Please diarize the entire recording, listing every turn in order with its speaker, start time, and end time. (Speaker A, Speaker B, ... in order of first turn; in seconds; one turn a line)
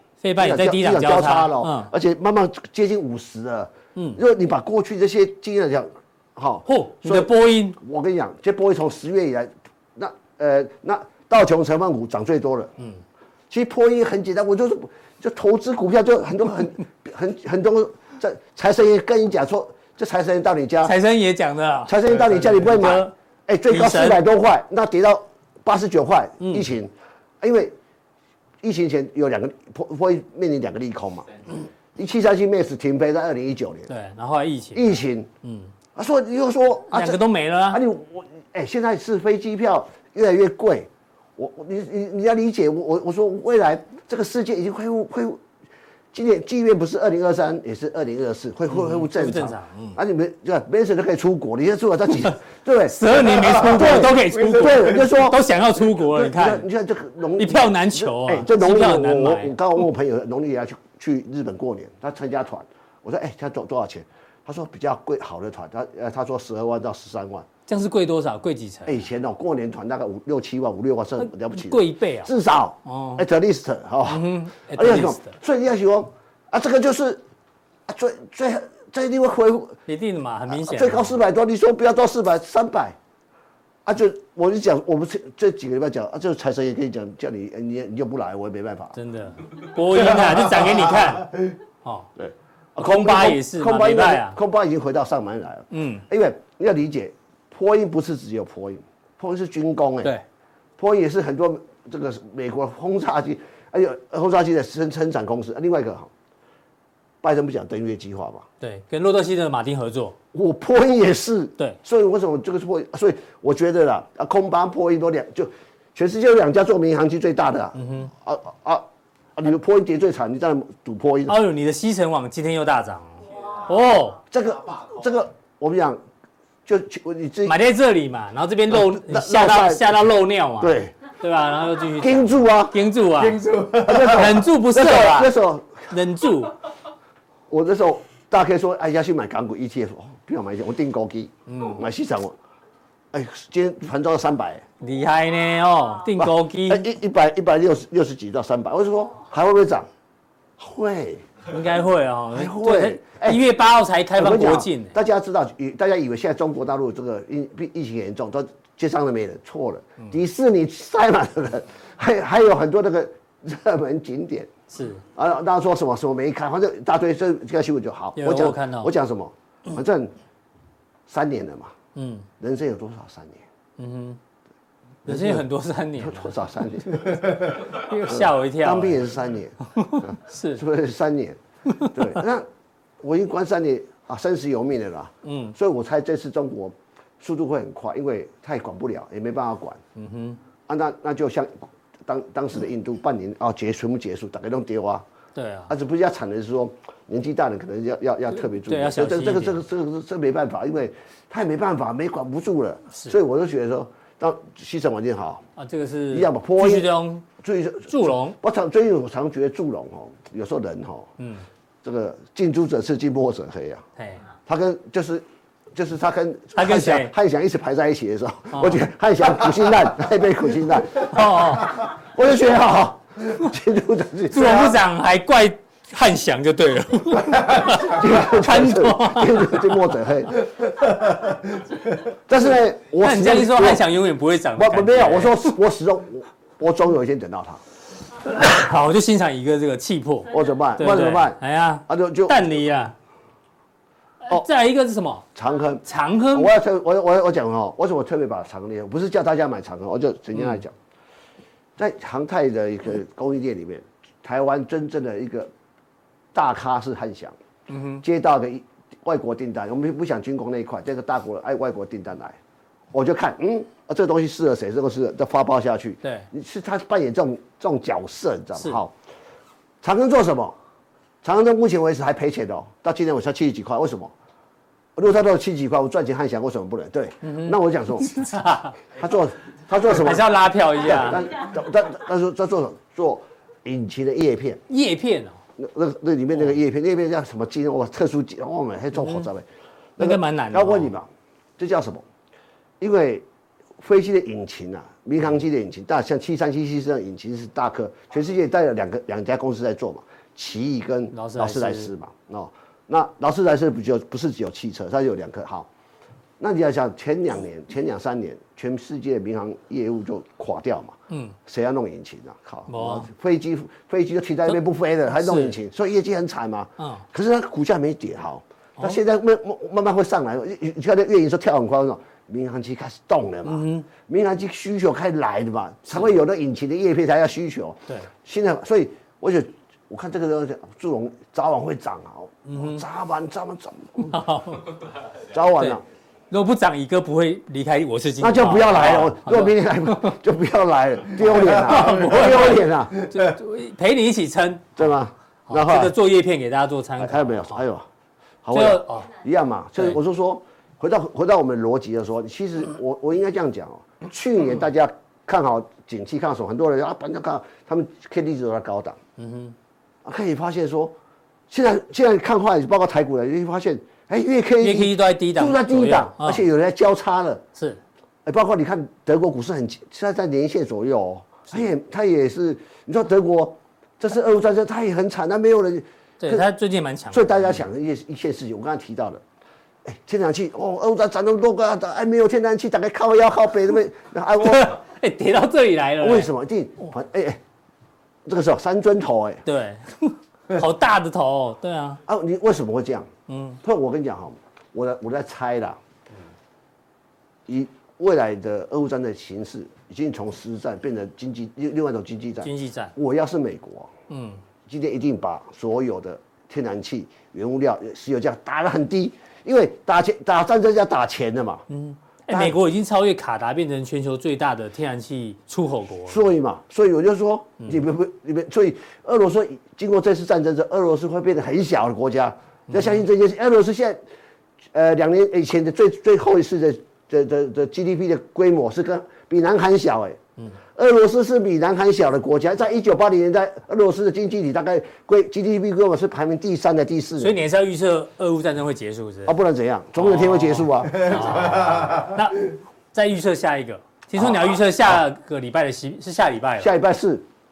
Speaker A: 0.2-1.9
Speaker B: 0.4-12.7
Speaker A: 6.7-7.8
Speaker B: 13.5-20.9
Speaker A: 20.8-23.1
Speaker B: 21.9-27.7
Speaker A: 23.7-24.2
Speaker A: 26.4-26.7
Speaker B: 28.6-31.4
Speaker B: 31.9-33.9
Speaker A: 33.9-35.7
Speaker B: 34.8-35.3
Speaker B: 36.0-45.4
Speaker A: 36.9-37.8
Speaker B: 46.1-55.4
Speaker A: 48.7-50.0
Speaker A: 52.9-56.6
Speaker B: 56.0-67.5
Speaker A: 57.4-59.5
Speaker A: 67.7-69.0
Speaker B: 68.9-77.2
Speaker A: 71.2-72.3
Speaker A: 72.9-73.2
Speaker A: 74.1-75.3
Speaker B: 77.9-79.8
Speaker A: 79.9-81.2
Speaker B: 80.5-83.0
Speaker B: 83.9-89.0
Speaker A: 89.0-92.1
Speaker B: 92.2-100.1
Speaker A: 92.8-94.4
Speaker A: 95.7-96.0
Speaker B: 100.8-106.1
Speaker B: 107.2-108.5
Speaker A: 108.6-110.2
Speaker B: 110.3-118.8
Speaker A: 117.8-118.1
Speaker B: 119.4-121.4
Speaker A: 121.3-124.2
Speaker B: 124.3-126.0
Speaker B: 126.7-127.5
Speaker A: 127.5-135.3
Speaker B: 128.7-130.1
Speaker B: 130.6-130.9
Speaker B: 132.0-132.8
Speaker B: 133.5-135.9
Speaker A: 135.9-136.6
Speaker B: 137.5-142.3
Speaker A: 141.5-141.8
Speaker B: 143.1-144.7
Speaker A: 144.8-146.9
Speaker B: 146.2-149.9
Speaker B: 150.6-151.4
Speaker A: 151.5-154.9
Speaker B: 152.3-153.4
Speaker B: 154.2-164.5
Speaker A: 164.7-165.0
Speaker B: 165.2-170.1
Speaker A: 168.2-168.9
Speaker B: 171.1-171.7
Speaker A: 172.0-172.3
Speaker B: 172.4-173.4
Speaker A: 173.8-174.2
Speaker A: 175.1-176.3
Speaker B: 175.1-175.4
Speaker B: 176.0-181.4
Speaker A: 177.0-179.0
Speaker A: 179.7-180.6
Speaker A: 181.7-182.1
Speaker B: 181.9-182.5
Speaker B: 183.0-189.8
Speaker A: 185.2-185.6
Speaker A: 190.0-190.4
Speaker B: 190.7-195.1
Speaker A: 195.3-195.7
Speaker B: 195.7-205.4
Speaker A: 198.7-199.6
Speaker A: 205.6-207.2
Speaker B: 206.1-211.1
Speaker A: 207.9-208.4
Speaker A: 211.2-211.4
Speaker B: 211.8-213.8
Speaker B: 214.5-215.2
Speaker B: 215.8-224.8
Speaker A: 216.6-217.1
Speaker A: 218.5-218.8
Speaker A: 220.9-221.9
Speaker A: 224.3-229.8
Speaker B: 227.3-233.8
Speaker A: 233.0-235.6
Speaker B: 234.6-237.6
Speaker A: 238.2-242.9
Speaker B: 240.3-242.4
Speaker A: 244.2-245.3
Speaker B: 245.3-250.7
Speaker A: 245.8-246.5
Speaker A: 250.3-250.6
Speaker B: 251.8-255.5
Speaker B: 256.3-257.4
Speaker A: 257.7-258.0
Speaker B: 258.0-262.4
Speaker B: 262.9-268.9
Speaker A: 266.0-266.3
Speaker B: 269.8-270.6
Speaker B: 271.2-274.1
Speaker B: 275.0-278.3
Speaker A: 277.2-278.8
Speaker B: 278.9-284.6
Speaker A: 279.9-281.3
Speaker A: 284.7-285.4
Speaker B: 285.6-289.4
Speaker A: 289.0-289.2
Speaker B: 290.0-292.1
Speaker A: 290.0-290.9
Speaker B: 292.8-293.2
Speaker B: 293.8-305.7
Speaker A: 301.1-301.9
Speaker B: 306.4-334.2
Speaker A: 311.1-311.4
Speaker A: 312.7-313.1
Speaker A: 315.1-315.6
Speaker A: 323.4-323.9
Speaker A: 332.5-332.8
Speaker A: 334.1-334.8
Speaker B: 335.3-335.8
Speaker A: 336.3-340.2
Speaker B: 338.2-343.1
Speaker A: 341.4-344.8
Speaker B: 344.8-345.9
Speaker A: 345.5-347.6
Speaker B: 347.0-347.9
Speaker B: 348.4-359.0
Speaker A: 348.5-349.1
Speaker A: 359.2-359.6
Speaker B: 360.1-360.9
Speaker B: 361.5-367.4
Speaker A: 364.6-366.4
Speaker A: 367.6-367.8
Speaker B: 368.2-376.5
Speaker A: 376.2-377.6
Speaker B: 377.1-379.2
Speaker B: 379.9-384.8
Speaker A: 384.4-386.3
Speaker B: 386.0-387.4
Speaker B: 388.3-389.4
Speaker A: 389.4-392.0
Speaker B: 392.1-393.1
Speaker A: 393.3-393.6
Speaker B: 393.6-395.8
Speaker B: 397.5-403.9
Speaker A: 402.4-402.9
Speaker A: 404.1-404.4
Speaker B: 404.7-411.6
Speaker A: 411.7-416.3
Speaker B: 412.3-412.6
Speaker B: 416.1-424.0
Speaker A: 422.7-423.0
Speaker B: 424.7-430.2
Speaker B: 430.8-437.4
Speaker A: 437.2-439.3
Speaker B: 439.3-441.8
Speaker A: 440.0-446.7
Speaker B: 444.2-445.0
Speaker B: 446.6-447.2